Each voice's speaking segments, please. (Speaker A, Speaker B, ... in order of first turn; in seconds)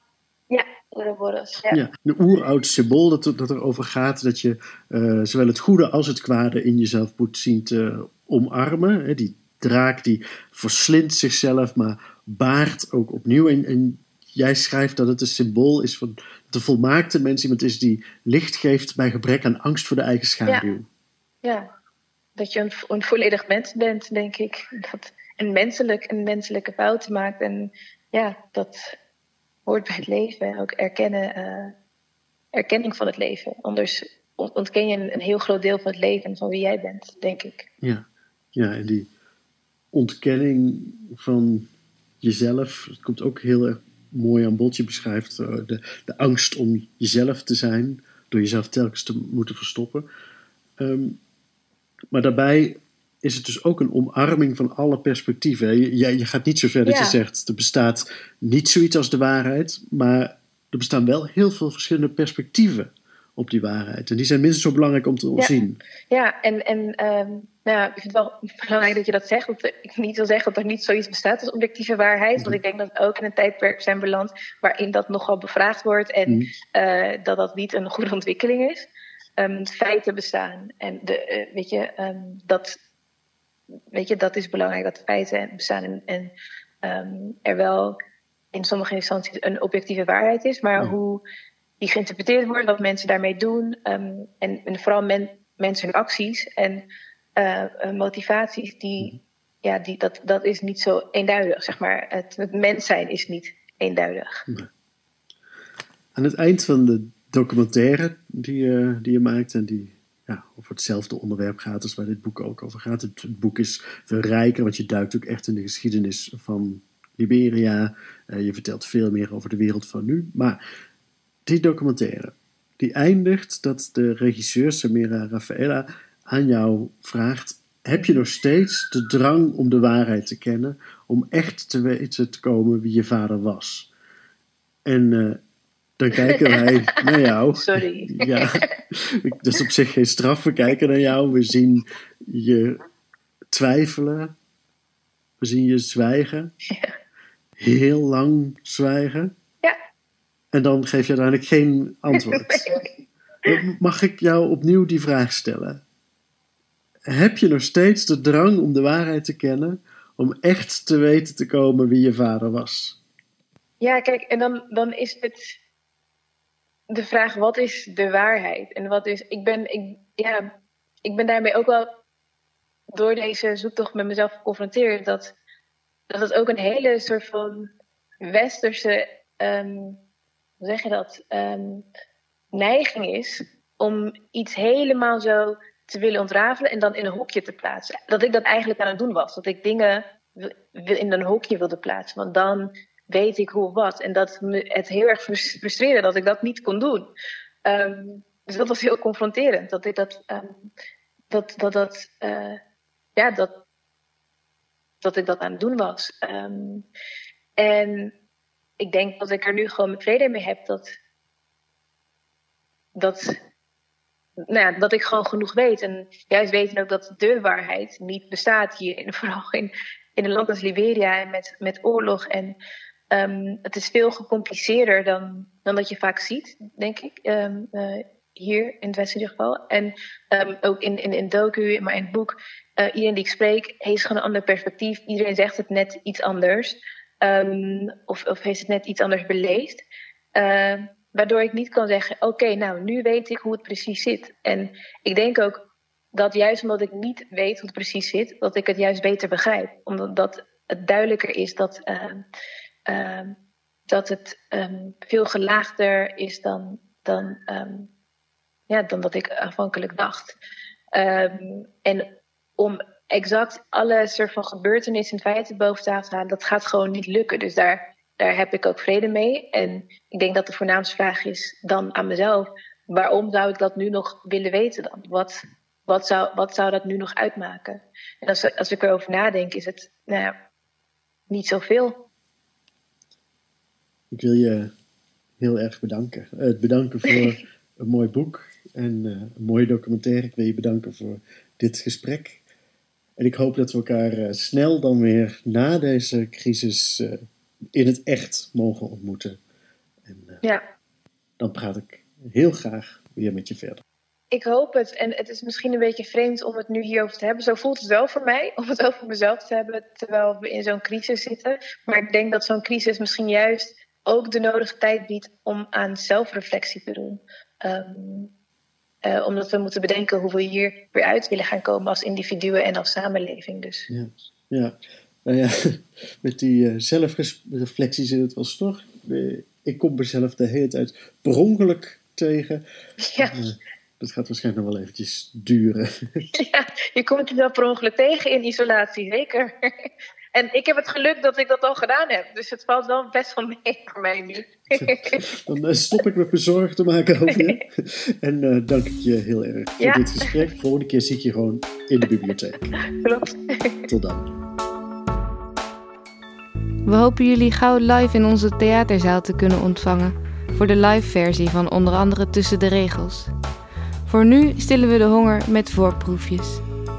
Speaker A: 0.5-1.8, 22.4-28.9, 29.7-31.7, 32.5-37.6, 56.9-57.2, 66.1-78.9, 79.4-82.8, 83.9-86.3, 86.8-88.0, 88.5-91.2, 91.8-96.8, 97.4-104.3, 137.5-138.7, 152.2-152.9, 163.8-165.6, 166.9-170.4, 171.1-171.9, 172.9-175.3, 176.1-177.7, 178.3-180.0, 180.6-181.8, 182.5-197.1, 197.7-200.7, 201.3-202.6, 203.2-203.5, 205.0-206.8, 207.6-208.1, 208.8-210.9, 213.0-213.3, 214.5-222.6, 223.1-239.8, 240.4-245.6, 246.1-252.2, 252.9-253.4, 253.9-257.9, 258.7-260.4, 260.9-262.1, 262.6-275.4, 275.9-280.3, 281.3-282.0, 304.3-318.3, 319.1-323.9, 333.0-333.4, 336.4-339.5, 340.4-345.2, 349.8-350.1, 353.0-353.9
Speaker B: 1.7-20.9, 37.8-39.1, 39.9-41.7, 42.2-50.1, 50.8-51.2, 52.1-65.8, 106.2-120.6, 121.5-133.9, 134.8-135.4, 136.0-142.8, 143.5-144.3, 145.4-146.5, 147.6-149.3, 150.5-152.7, 153.5-155.8, 157.1-163.0, 284.1-284.7, 285.4-292.4, 293.2-297.2, 297.7-299.4, 300.1-300.4, 301.4-303.8, 323.9-332.6, 333.2-336.2, 344.8-352.7, 353.9-354.3
Speaker C: 356.9-363.3, 364.1-366.6